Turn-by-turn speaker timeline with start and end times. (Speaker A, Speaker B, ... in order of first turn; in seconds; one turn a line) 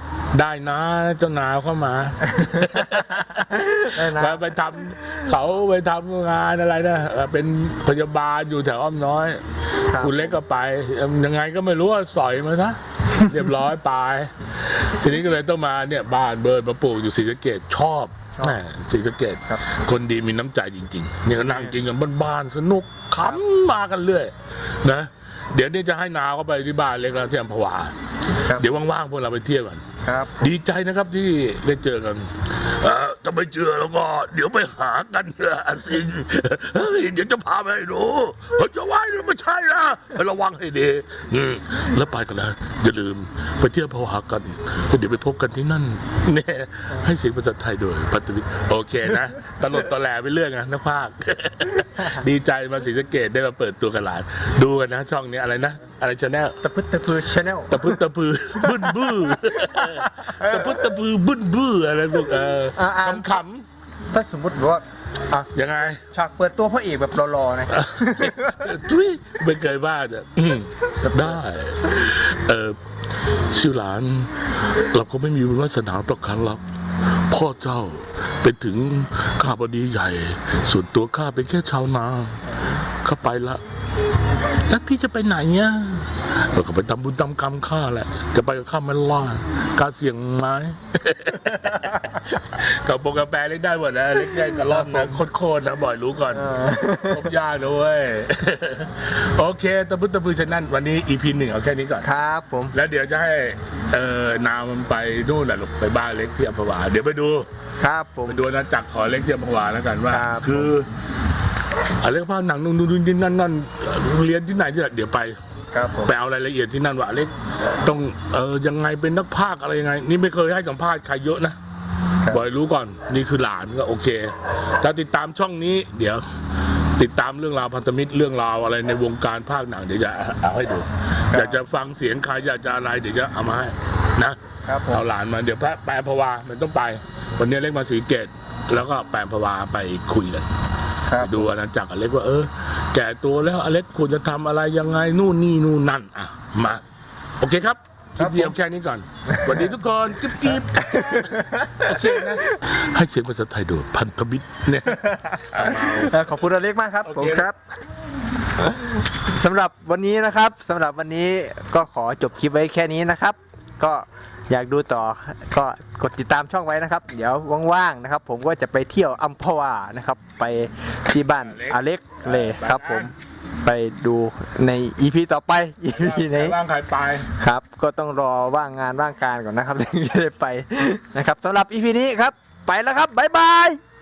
Speaker A: 0.3-29.9
Speaker B: 2.4-4.5
Speaker B: 9.9-10.4
Speaker B: 21.4-21.8
Speaker B: 28.5-28.7
Speaker B: 30.1-30.6
Speaker A: 30.4-56.6
Speaker B: 56.6-58.0
Speaker A: 57.7-63.7
Speaker B: 58.6-60.7
Speaker B: 62.8-63.4
Speaker B: 64.1-65.5
Speaker A: 65.5-66.0
Speaker B: 66.1-68.8
Speaker A: 67.7-83.6
Speaker A: 84.4-102.1
Speaker B: 94.7-95.2
Speaker B: 96.3-97.3
Speaker B: 102.0-102.7
Speaker A: 102.7-107.5
Speaker B: 107.8-108.4
Speaker A: 108.3-110.9
Speaker B: 110.1-110.8
Speaker A: 112.0-115.4
Speaker B: 115.7-116.1
Speaker A: 116.0-121.6
Speaker A: 122.3-126.3
Speaker A: 126.8-140.5
Speaker B: 131.3-131.6
Speaker B: 134.7-135.1
Speaker B: 141.1-141.6
Speaker A: 141.2-146.8
Speaker A: 147.4-156.2
Speaker B: 148.2-148.6
Speaker B: 149.3-149.7
Speaker B: 150.7-152.5
Speaker B: 154.9-157.6
Speaker A: 157.1-157.5
Speaker B: 158.6-176.6
Speaker A: 171.3-173.1
Speaker A: 175.9-177.3
Speaker B: 177.4-183.8